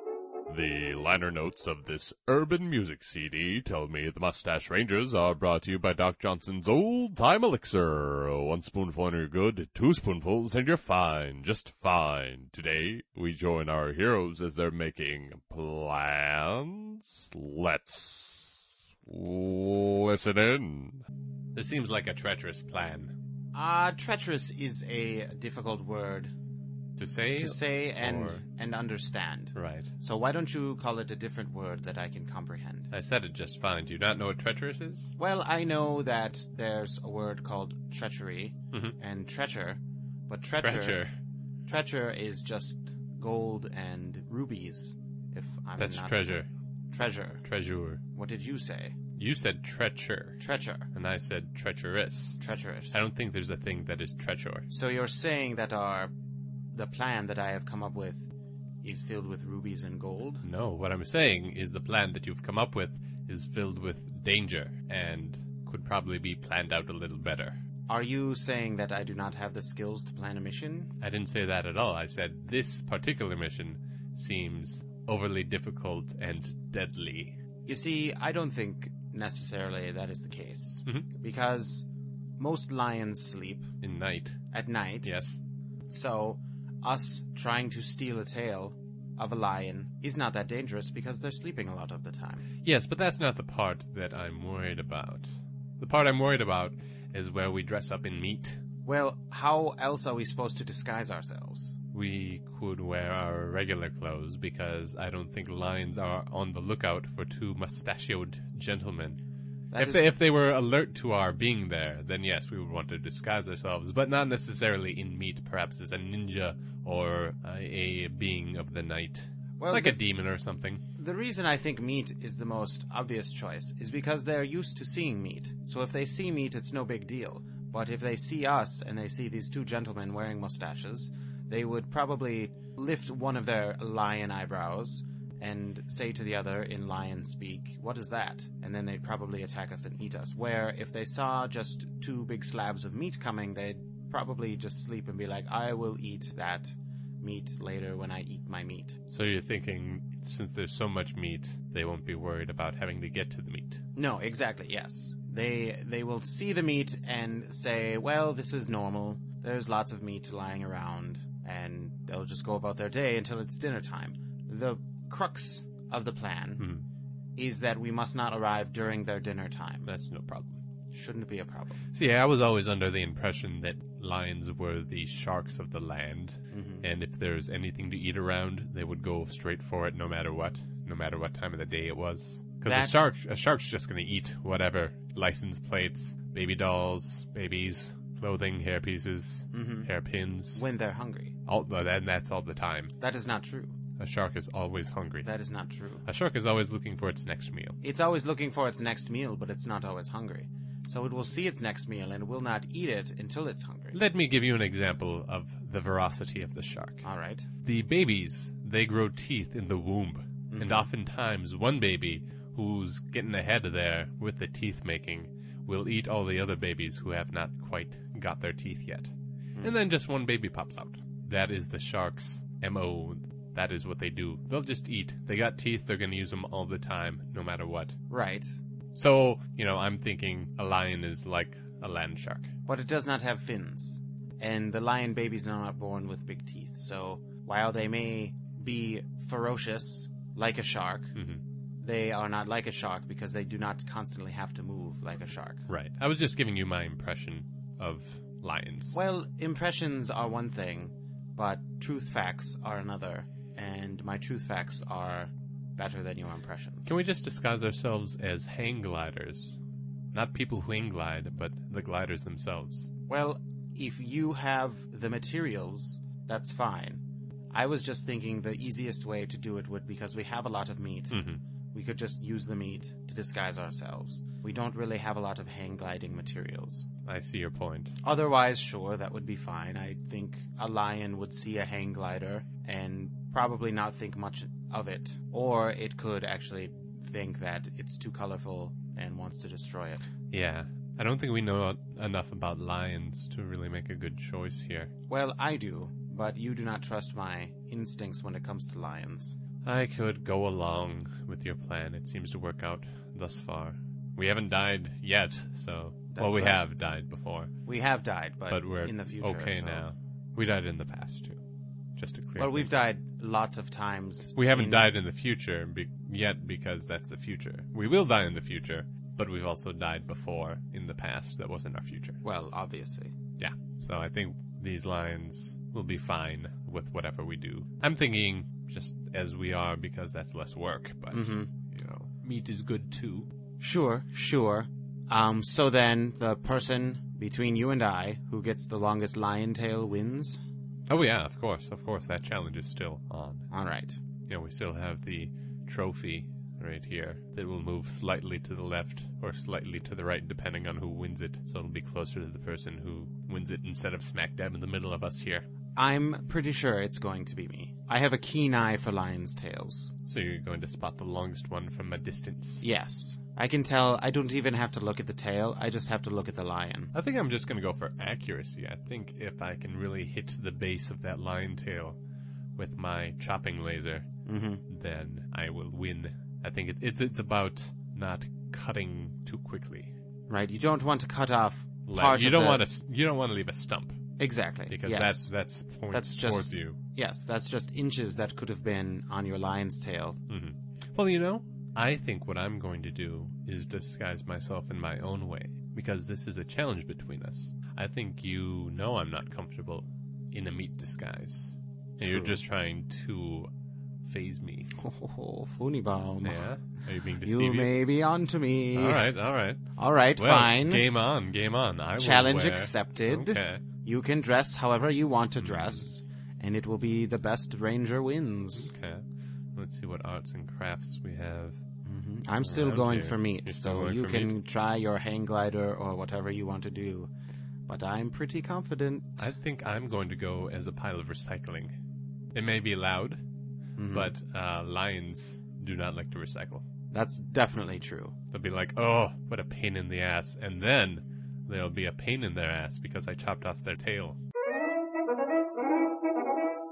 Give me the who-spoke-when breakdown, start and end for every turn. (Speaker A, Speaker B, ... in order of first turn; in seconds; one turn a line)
Speaker A: 0.5-21.0
Speaker B: 21.6-23.2
Speaker C: 23.5-26.3
Speaker B: 27.0-28.4
Speaker C: 27.4-32.9
Speaker B: 29.6-29.9
Speaker B: 32.9-35.1
Speaker C: 35.2-41.0
Speaker B: 40.6-41.1
Speaker C: 41.7-46.4
Speaker B: 45.8-46.5
Speaker C: 46.9-47.5
Speaker B: 47.4-48.0
Speaker C: 48.1-49.0
Speaker B: 49.2-50.4
Speaker C: 50.4-50.9
Speaker B: 50.9-52.4
Speaker C: 52.4-53.0
Speaker B: 52.9-54.7
Speaker C: 54.7-56.1
Speaker C: 56.7-58.3
Speaker C: 58.8-60.4
Speaker B: 60.4-67.6
Speaker C: 67.9-71.0
Speaker B: 71.0-77.4
Speaker C: 77.7-81.9
Speaker C: 82.4-83.7
Speaker B: 83.8-84.4
Speaker C: 84.5-85.1
Speaker B: 85.0-85.4
Speaker C: 85.9-92.5
Speaker B: 92.6-98.6
Speaker C: 98.8-101.8
Speaker B: 101.9-109.2
Speaker C: 109.7-110.1
Speaker B: 109.8-120.8
Speaker C: 119.6-120.0
Speaker C: 121.0-149.0
Speaker B: 149.1-153.8
Speaker C: 153.9-166.7
Speaker B: 166.6-166.8
Speaker C: 167.4-169.9
Speaker B: 169.9-170.6
Speaker C: 170.9-171.8
Speaker B: 171.9-190.7
Speaker C: 176.5-176.9
Speaker C: 182.7-183.1
Speaker C: 189.5-189.9
Speaker C: 190.5-191.4
Speaker B: 191.5-192.9
Speaker C: 193.0-193.8
Speaker B: 194.0-195.3
Speaker C: 195.2-196.1
Speaker B: 196.0-197.8
Speaker C: 197.8-204.0
Speaker B: 203.9-207.1
Speaker C: 207.0-207.5
Speaker B: 207.6-228.0
Speaker C: 210.5-210.9
Speaker C: 228.1-228.6
Speaker B: 228.9-232.5
Speaker C: 232.7-241.2
Speaker B: 241.2-241.4
Speaker C: 241.8-245.7
Speaker B: 245.7-249.0
Speaker C: 248.9-257.0
Speaker B: 256.9-259.6
Speaker B: 260.1-262.9
Speaker C: 263.1-276.9
Speaker B: 271.1-271.4
Speaker B: 277.1-278.0
Speaker C: 278.0-290.1
Speaker B: 290.3-294.9
Speaker C: 295.1-299.4
Speaker B: 299.6-307.5
Speaker C: 306.1-306.7
Speaker C: 307.7-309.9
Speaker B: 308.5-311.4
Speaker B: 312.0-312.9
Speaker C: 312.4-314.9
Speaker B: 314.4-322.2
Speaker C: 322.2-323.1
Speaker B: 323.4-333.3
Speaker C: 331.1-331.5
Speaker C: 333.6-340.4
Speaker B: 340.9-343.5
Speaker C: 343.5-344.0
Speaker B: 344.3-355.5
Speaker C: 355.8-359.9
Speaker B: 360.1-362.7
Speaker C: 362.6-366.9
Speaker B: 366.9-372.0
Speaker B: 372.6-374.1
Speaker C: 374.3-374.6
Speaker B: 374.7-379.9
Speaker C: 380.3-382.7
Speaker B: 381.9-384.0
Speaker C: 384.2-385.3
Speaker B: 384.7-386.8
Speaker C: 385.9-390.2
Speaker B: 390.3-403.5
Speaker C: 402.0-402.4
Speaker B: 404.0-404.7
Speaker C: 404.8-406.5
Speaker B: 406.2-407.8
Speaker C: 407.2-409.2
Speaker B: 408.8-413.6
Speaker C: 409.8-410.9
Speaker C: 412.0-418.7
Speaker B: 415.4-415.9
Speaker B: 418.6-421.6
Speaker C: 421.9-427.1
Speaker B: 422.4-424.4
Speaker C: 427.7-429.3
Speaker B: 429.2-431.8
Speaker B: 432.3-433.2
Speaker C: 433.8-434.1
Speaker B: 433.9-436.6
Speaker C: 436.9-438.2
Speaker B: 438.3-444.2